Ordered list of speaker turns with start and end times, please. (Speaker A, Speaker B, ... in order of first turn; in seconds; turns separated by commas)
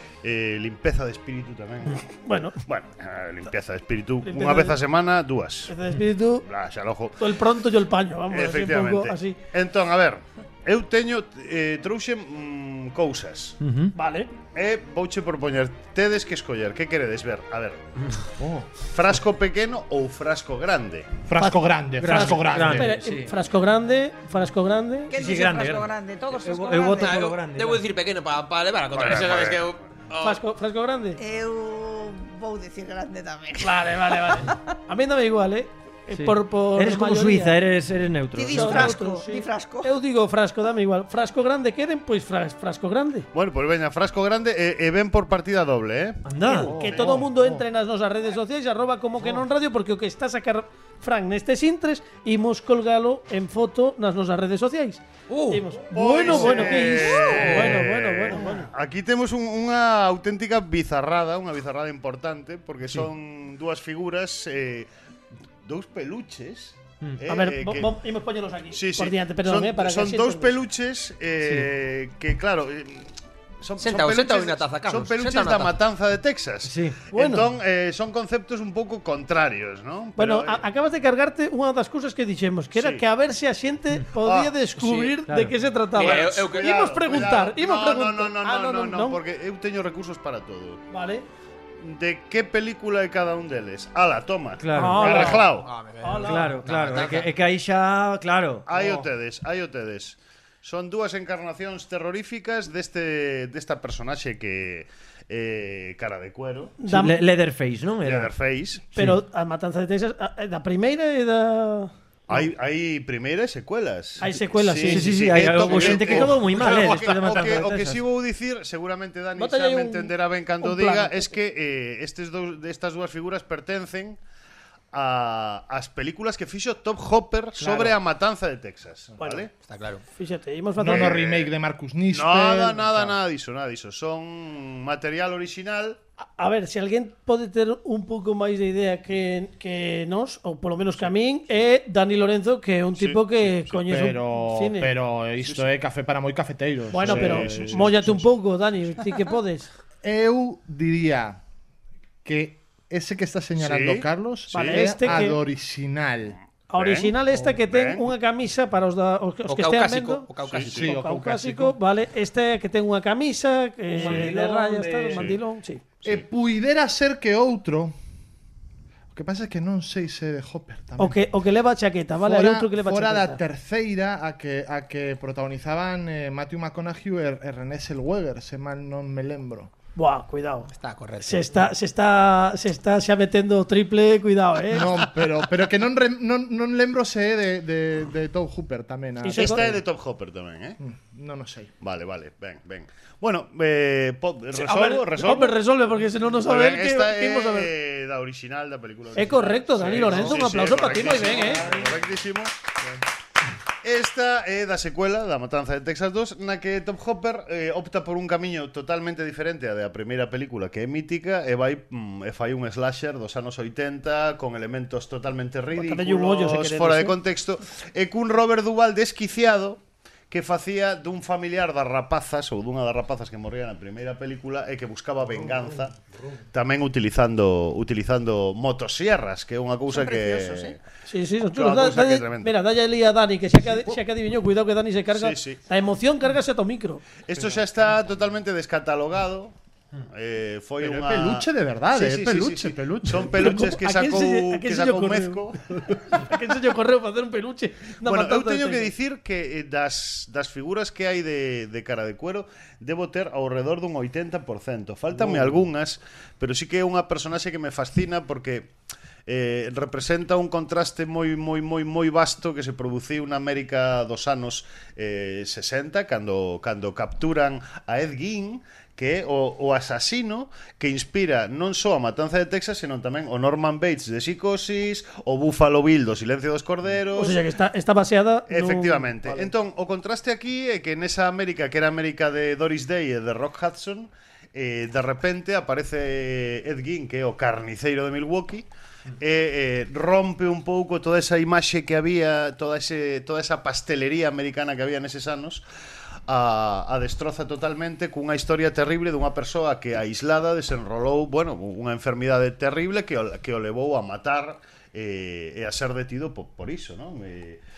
Speaker A: 0.2-2.0, Speaker B: 2.2-2.6, Speaker A: 2.6-5.7, Speaker B: 4.2-4.8, Speaker B: 5.7-6.5, Speaker A: 6.4-7.2, Speaker B: 7.2-9.4, Speaker A: 8.3-13.6, Speaker C: 13.6-13.9, Speaker B: 13.9-14.3, Speaker A: 14.5-17.8, Speaker D: 18.4-18.7, Speaker A: 18.8-21.1, Speaker D: 21.2-22.9, Speaker B: 21.4-25.1, Speaker C: 22.0-23.3, Speaker E: 25.1-27.2, Speaker C: 25.1-27.8, Speaker F: 26.9-30.4, Speaker A: 28.9-29.7, Speaker B: 30.2-31.2, Speaker E: 31.2-33.9, Speaker B: 33.6-37.6, Speaker C: 36.1-39.0, Speaker E: 38.3-39.9, Speaker B: 38.5-43.3, Speaker A: 43.3-46.7, Speaker C: 46.2-47.2, Speaker D: 46.5-47.1, Speaker B: 46.8-58.7, Speaker A: 55.9-64.9, Speaker A: 65.6-67.9, Speaker B: 67.3-70.6, Speaker A: 68.7-80.6, Speaker C: 71.4-71.7, Speaker F: 73.8-75.7, Speaker C: 76.6-77.0, Speaker B: 77.1-77.4, Speaker B: 80.2-89.2, Speaker A: 82.8-83.0, Speaker A: 84.2-84.5, Speaker F: 84.8-85.1, Speaker C: 85.3-85.5, Speaker F: 85.9-86.7, Speaker A: 86.0-90.8, Speaker B: 90.9-91.2, Speaker A: 91.8-95.7, Speaker C: 94.6-95.4, Speaker B: 94.7-95.5, Speaker F: 95.1-97.3, Speaker B: 96.0-96.6, Speaker C: 96.2-99.0, Speaker A: 98.7-106.7, Speaker B: 106.8-107.2, Speaker C: 106.8-108.3, Speaker A: 108.0-108.9, Speaker B: 108.9-111.9, Speaker A: 112.3-124.2, Speaker B: 114.2-116.0, Speaker C: 114.8-118.0, Speaker B: 119.4-121.3, Speaker A: 124.9-129.5, Speaker B: 127.6-127.9, Speaker B: 129.2-129.5, Speaker F: 129.7-130.0, Speaker B: 130.1-131.2, Speaker D: 130.8-133.1, Speaker A: 130.9-131.5, Speaker A: 132.1-136.0, Speaker B: 136.4-144.9, Speaker A: 143.0-143.8, Speaker D: 143.8-148.2, Speaker A: 145.4-145.7, Speaker B: 146.9-149.7, Speaker A: 147.0-147.9, Speaker D: 150.0-151.4, Speaker D: 152.2-156.4, Speaker A: 153.6-155.2, Speaker B: 154.5-155.4, Speaker B: 156.7-160.2, Speaker A: 156.7-158.1, Speaker F: 159.5-160.9, Speaker A: 160.5-160.9, Speaker D: 160.7-161.8, Speaker B: 160.8-165.8, Speaker C: 163.9-165.3, Speaker D: 164.0-164.3, Speaker D: 166.0-167.9, Speaker D: 169.1-171.2, Speaker B: 171.0-173.4, Speaker D: 172.2-179.7, Speaker B: 179.9-184.9, Speaker F: 180.7-181.5, Speaker D: 184.7-189.8, Speaker B: 189.2-189.7, Speaker A: 189.3-190.8, Speaker D: 190.8-191.7, Speaker A: 191.8-195.6, Speaker B: 194.5-197.7, Speaker A: 196.4-202.5, Speaker B: 199.1-201.7, Speaker C: 199.9-200.2, Speaker C: 201.4-201.8, Speaker A: 203.8-225.9, Speaker B: 215.7-217.2, Speaker A: 226.5-230.8, Speaker E: 229.9-230.7, Speaker B: 231.1-237.0, Speaker A: 231.5-232.6, Speaker A: 235.1-235.6, Speaker A: 237.2-239.5, Speaker A: 240.1-246.2, Speaker D: 240.8-243.6, Speaker B: 243.3-248.9, Speaker A: 248.0-258.7, Speaker A: 259.3-277.4, Speaker B: 277.1-279.5, Speaker A: 278.5-288.6, Speaker A: 289.2-295.6, Speaker A: 296.3-307.6